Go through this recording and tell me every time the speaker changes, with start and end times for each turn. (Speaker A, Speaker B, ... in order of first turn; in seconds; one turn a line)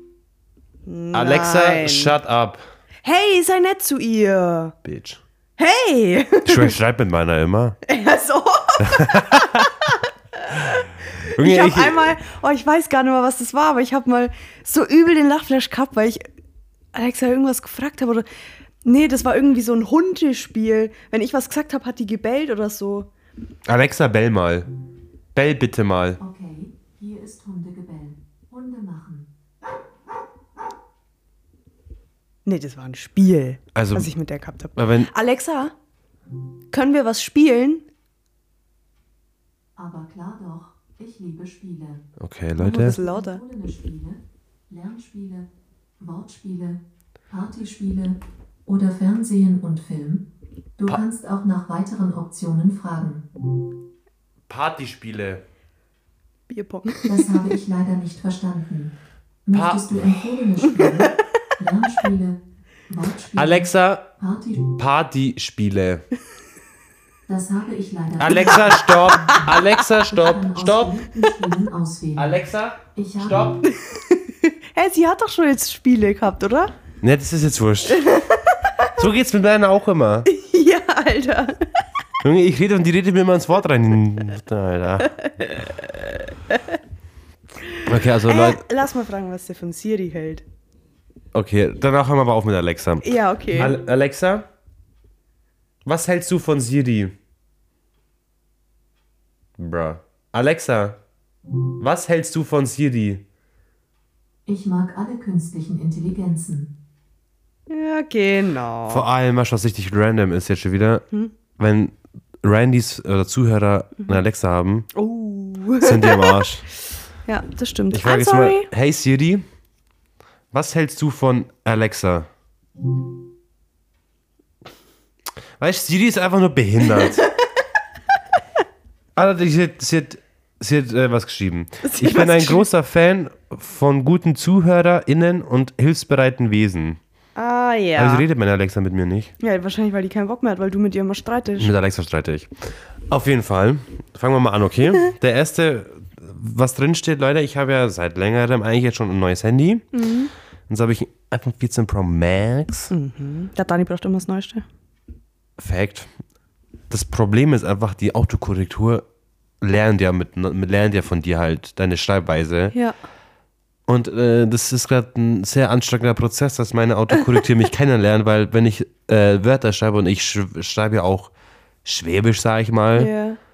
Speaker A: 0.9-2.2
Speaker B: 1.1-2.6
Speaker A: 3.0-4.8
Speaker B: 4.8-5.2
Speaker A: 5.6-6.7
Speaker B: 6.5-7.8
Speaker A: 7.8-16.2
Speaker B: 8.8-9.7
Speaker B: 11.2-12.1
Speaker A: 16.9-18.2
Speaker A: 18.8-23.1
Speaker B: 23.7-24.7
Speaker B: 25.3-26.2
Speaker C: 26.2-29.3
Speaker A: 32.5-35.7
Speaker B: 33.8-34.1
Speaker B: 34.8-35.1
Speaker A: 36.7-37.8
Speaker C: 39.8-42.0
Speaker B: 42.2-43.0
Speaker A: 42.6-43.4
Speaker C: 42.6-45.5
Speaker C: 46.0-50.2
Speaker C: 50.8-53.3
Speaker B: 54.5-55.4
Speaker A: 56.5-57.1
Speaker C: 57.0-64.8
Speaker B: 59.5-59.9
Speaker B: 63.4-64.0
Speaker B: 64.8-66.0
Speaker C: 67.3-72.4
Speaker B: 68.2-71.0
Speaker B: 72.2-73.6
Speaker C: 73.0-73.6
Speaker A: 73.6-76.7
Speaker B: 77.0-78.1
Speaker A: 77.9-78.7
Speaker B: 79.0-80.3
Speaker A: 80.3-81.7
Speaker B: 82.2-85.1
Speaker A: 85.0-86.8
Speaker A: 87.7-90.4
Speaker B: 87.8-88.6
Speaker B: 91.3-94.5
Speaker A: 93.0-93.7
Speaker B: 95.8-97.1
Speaker B: 99.6-101.0
Speaker B: 101.8-103.2
Speaker C: 104.5-106.7
Speaker A: 107.7-109.0
Speaker B: 108.9-111.0
Speaker B: 111.6-114.9
Speaker A: 114.9-116.5
Speaker B: 115.8-116.7
Speaker A: 117.3-118.7
Speaker B: 117.9-119.5
Speaker B: 120.5-122.3
Speaker B: 125.6-127.2
Speaker B: 129.2-137.0
Speaker A: 131.8-132.7
Speaker A: 137.3-138.3
Speaker B: 138.0-139.3
Speaker A: 139.4-141.7
Speaker B: 141.6-149.9
Speaker A: 149.9-150.3
Speaker B: 150.7-152.9
Speaker A: 152.9-154.7
Speaker B: 155.6-156.1
Speaker B: 156.9-159.0
Speaker B: 159.6-162.8
Speaker B: 163.9-171.3
Speaker B: 171.8-173.1
Speaker A: 172.9-173.4